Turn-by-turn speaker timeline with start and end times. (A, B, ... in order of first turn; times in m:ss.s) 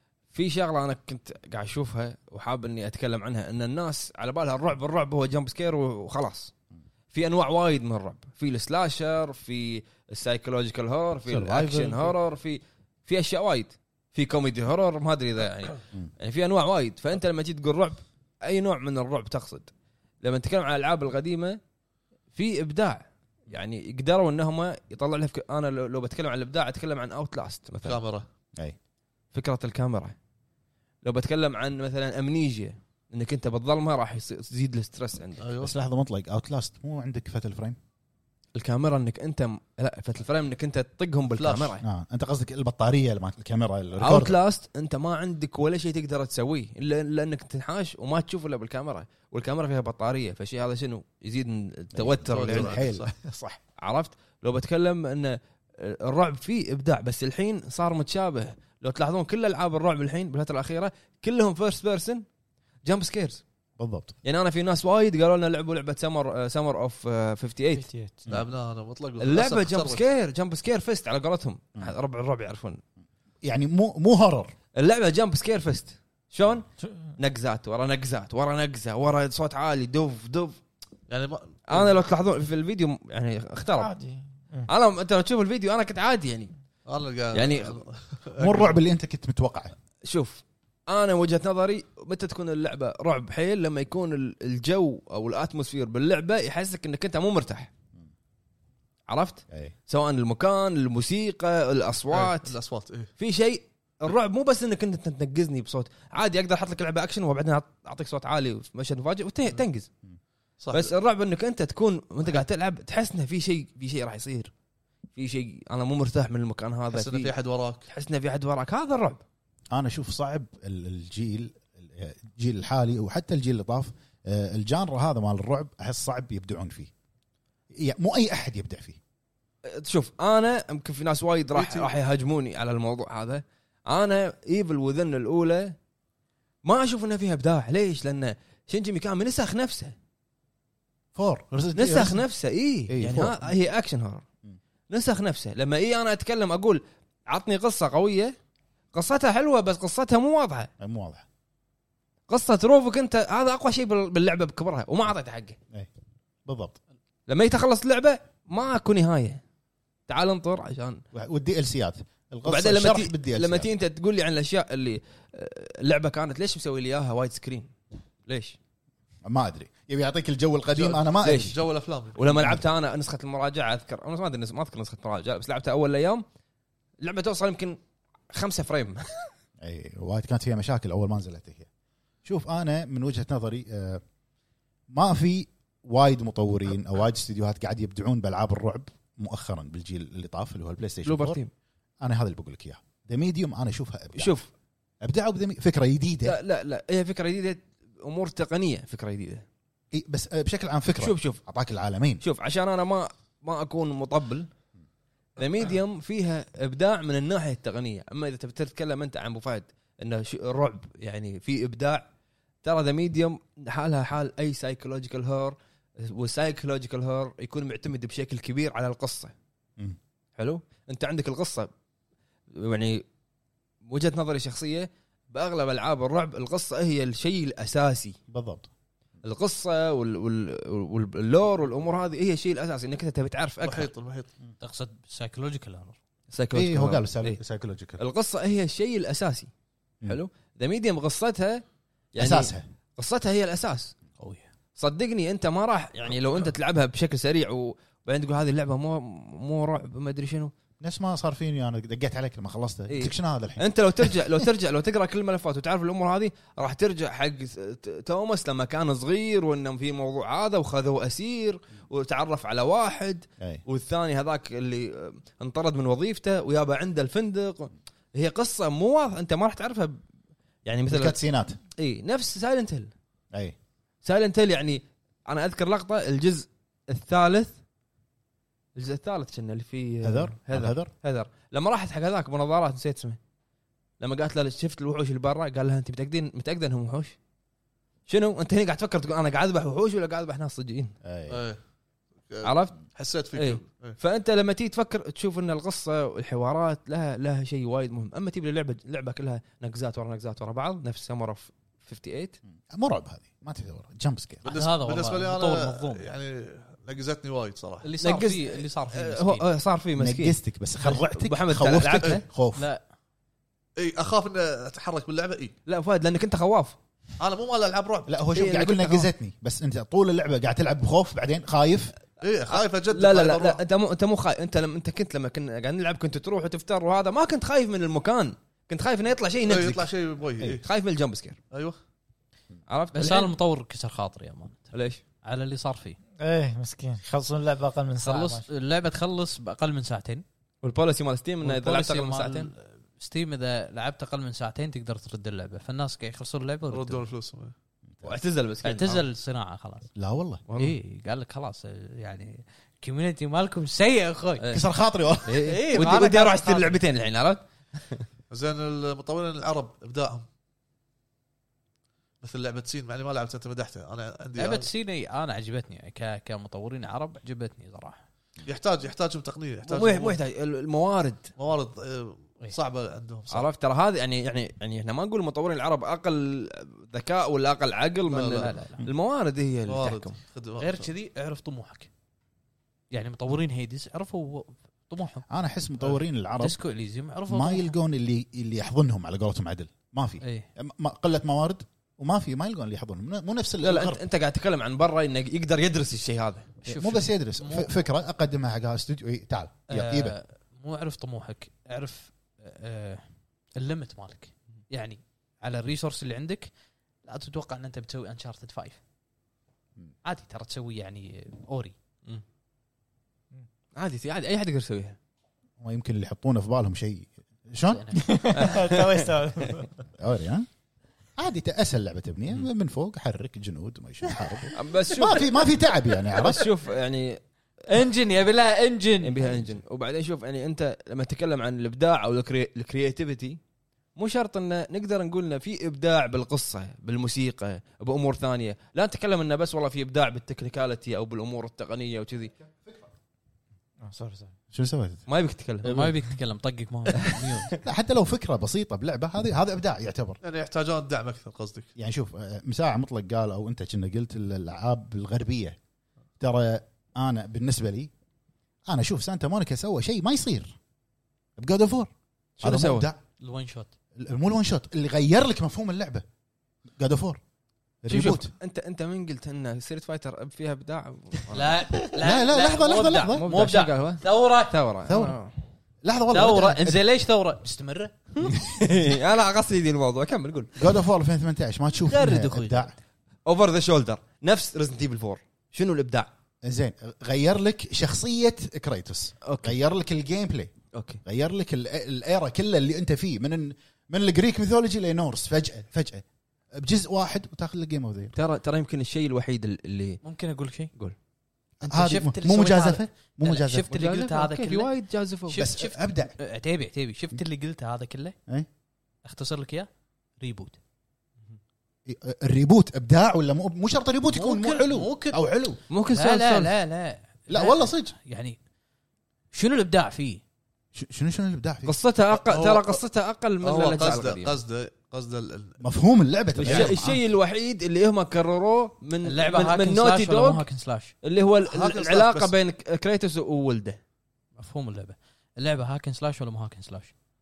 0:00.3-0:06.5 A
0:07.1-0:19.7 A
0:11.2-0:12.1 B
0:20.2-0:21.6 A
0:22.3-0:28.0 A
0:27.8-0:28.2 C
0:29.3-0:30.1 A
0:31.0-0:35.4 A
0:35.4-0:35.7 C
0:35.6-0:37.8 B
0:38.5-0:41.8 A
0:41.4-0:41.8 C
0:41.8-0:44.4 B
0:44.0-0:52.9 A
0:51.9-0:53.6 B
0:52.3-0:53.1 C
0:53.8-1:02.2 A
1:02.8-1:03.4 A
1:03.8-1:04.1 B
1:04.2-1:07.8 A
1:07.7-1:08.3 D
1:08.3-1:10.0 C
1:09.2-1:12.8 A
1:13.4-1:14.5 B
1:14.8-1:16.6 A
1:17.2-1:20.6 A
1:21.1-1:22.0 C
1:21.7-1:23.9 A
1:23.8-1:24.7 D
1:24.6-1:26.5 A
1:26.9-1:28.8 C
1:27.3-1:27.8 A
1:28.4-1:29.7 B
1:30.0-1:37.7 A
1:39.1-1:42.5 A
1:42.1-1:43.1 C
1:43.2-1:49.9 A
1:50.6-1:50.9 C
1:50.7-1:54.5 A
1:55.1-1:57.3 A
1:56.9-1:57.9 C
1:57.9-1:59.2 A
1:59.7-2:06.9 B
2:07.7-2:09.0 B
2:09.6-2:15.7 A
2:11.5-2:11.9 C
2:16.6-2:19.9 A
2:21.1-2:22.2 B
2:21.7-2:24.2 A
2:22.9-2:23.5 B
2:24.9-2:28.3 A
2:28.9-2:30.7 A
2:30.8-2:31.2 B
2:32.3-2:35.6 A
2:36.4-2:36.8 B
2:37.3-2:39.4 A
2:40.1-2:41.0 A
2:41.1-2:43.7 B
2:42.4-2:47.7 A
2:48.3-2:48.6 A
2:49.2-2:51.6 B
2:50.7-2:52.5 C
2:51.2-2:51.6 A
2:52.1-2:56.2 A
2:52.3-2:52.6 B
2:57.0-2:57.8 A
2:58.3-2:59.3 A
2:59.6-3:01.7 B
3:02.2-3:04.0 B
3:04.9-3:11.4 B
3:11.0-3:11.5 A
3:12.0-3:14.3 B
3:14.1-3:14.5 A
3:15.0-3:16.4 B
3:16.2-3:19.4 A
3:19.9-3:22.2 B
3:20.9-3:21.4 A
3:22.2-3:24.5 A
3:25.4-3:32.0 A
3:32.6-3:39.3 A
3:40.4-3:41.7 A
3:42.6-3:43.0 A
3:43.8-3:48.2 A
3:48.3-3:48.7 B
3:49.2-3:53.9 A
3:53.6-3:54.3 C
3:54.6-3:56.0 E
3:56.3-3:57.4 A
3:56.5-3:58.0 B
3:58.0-3:59.5 A
4:00.0-4:01.6 A
4:02.1-4:03.9 A
4:02.2-4:02.6 B
4:04.2-4:04.4 E
4:04.8-4:10.5 A
4:10.8-4:14.4 B
4:12.9-4:30.0 A
4:30.6-4:31.2 A
4:30.9-4:31.6 B
4:31.8-4:32.9 A
4:34.0-4:37.5 A
4:38.8-4:43.2 A
4:40.0-4:40.9 B
4:44.0-4:47.2 A
4:48.1-4:50.9 A
4:51.0-4:51.4 B
4:51.3-4:51.6 C
4:52.3-4:54.0 C
4:52.4-4:52.8 A
4:53.3-5:02.4 A
5:02.7-5:04.4 B
5:04.4-5:06.1 E
5:04.4-5:07.9 C
5:07.8-5:09.4 E
5:08.0-5:10.4 A
5:10.0-5:12.6 B
5:10.9-5:12.2 A
5:12.6-5:12.8 E
5:13.8-5:15.5 C
5:15.7-5:16.8 A
5:17.2-5:18.1 C
5:18.1-5:21.9 B
5:18.3-5:19.1 A
5:22.2-5:23.6 C
5:22.5-5:29.9 A
5:29.5-5:30.6 C
5:30.5-5:31.4 A
5:31.5-5:31.8 C
5:32.7-5:33.3 A
5:32.9-5:34.7 E
5:34.7-5:35.0 A
5:35.2-5:36.0 E
5:36.2-5:38.4 D
5:38.0-5:40.2 E
5:40.6-5:42.5 A
5:41.4-5:47.0 E
5:46.7-5:47.5 C
5:48.0-5:49.0 A
5:48.6-5:49.9 E
5:50.0-5:50.4 B
5:50.5-5:50.8 A
5:50.5-5:54.4 E
5:54.4-5:54.6 A
5:54.5-5:55.4 B
5:55.2-5:58.0 A
5:55.4-5:56.8 E
5:58.3-6:00.2 C
6:02.2-6:04.7 C
6:04.4-6:08.0 E
6:08.4-6:10.2 C
6:09.6-6:11.3 A
6:11.4-6:13.5 C
6:13.3-6:20.1 A
6:18.1-6:18.5 C
6:18.4-6:18.8 E
6:19.6-6:20.9 C
6:20.6-6:21.9 E
6:22.9-6:25.2 E
6:25.3-6:26.6 B
6:26.4-6:27.7 E
6:27.3-6:34.0 B
6:30.2-6:30.5 E
6:33.6-6:36.5 A
6:36.6-6:37.7 E
6:36.6-6:40.2 B
6:39.7-6:43.0 E
6:43.6-6:46.5 E
6:47.0-6:48.8 E
6:50.0-6:51.7 E
6:53.8-6:55.0 A
6:55.6-6:58.3 B
6:57.7-6:58.4 E
6:58.0-6:59.7 D
6:58.3-6:59.1 A
7:00.0-7:00.5 B
7:01.2-7:06.4 B
7:04.5-7:05.5 A
7:06.2-7:07.2 A
7:07.7-7:09.2 E
7:09.0-7:13.4 A
7:14.0-7:22.3 A
7:23.8-7:24.3 D
7:24.5-7:25.0 B
7:25.1-7:25.8 A
7:25.6-7:27.5 E
7:27.6-7:30.2 B
7:30.2-7:31.7 C
7:31.8-7:35.6 B
7:36.2-7:37.9 B
7:38.7-7:40.6 B
7:41.4-7:43.0 B
7:42.4-7:42.9 A
7:43.2-7:43.7 E
7:44.0-7:46.0 B
7:46.8-7:47.2 B
7:47.8-7:48.3 B
7:47.9-7:51.8 A
7:51.3-7:54.5 E
7:52.0-7:53.2 B
7:53.0-7:55.3 A
7:54.9-7:55.2 B
7:55.8-7:56.8 B
7:56.1-7:58.4 E
7:58.2-8:00.5 A
8:00.6-8:02.7 B
8:01.8-8:02.8 E
8:03.2-8:06.1 A
8:06.4-8:10.5 B
8:09.2-8:09.6 A
8:10.7-8:11.0 A
8:11.0-8:18.1 B
8:18.1-8:20.0 A
8:20.0-8:20.7 E
8:21.6-8:23.6 B
8:21.6-8:24.7 E
8:23.7-8:25.4 A
8:25.3-8:28.2 E
8:25.3-8:26.1 B
8:29.0-8:29.7 E
8:30.2-8:30.6 E
8:31.8-8:35.6 B
8:34.1-8:35.2 E
8:35.7-8:36.5 A
8:35.9-8:38.4 E
8:37.3-8:37.9 B
8:39.3-8:40.2 E
8:40.7-8:41.7 B
8:41.6-8:44.4 A
8:42.2-8:42.8 C
8:43.4-8:45.6 C
8:45.6-8:47.0 B
8:46.4-8:50.4 A
8:46.5-8:46.7 C
8:49.0-8:50.9 E
8:51.0-8:53.8 A
8:51.5-8:52.3 C
8:54.4-8:56.9 E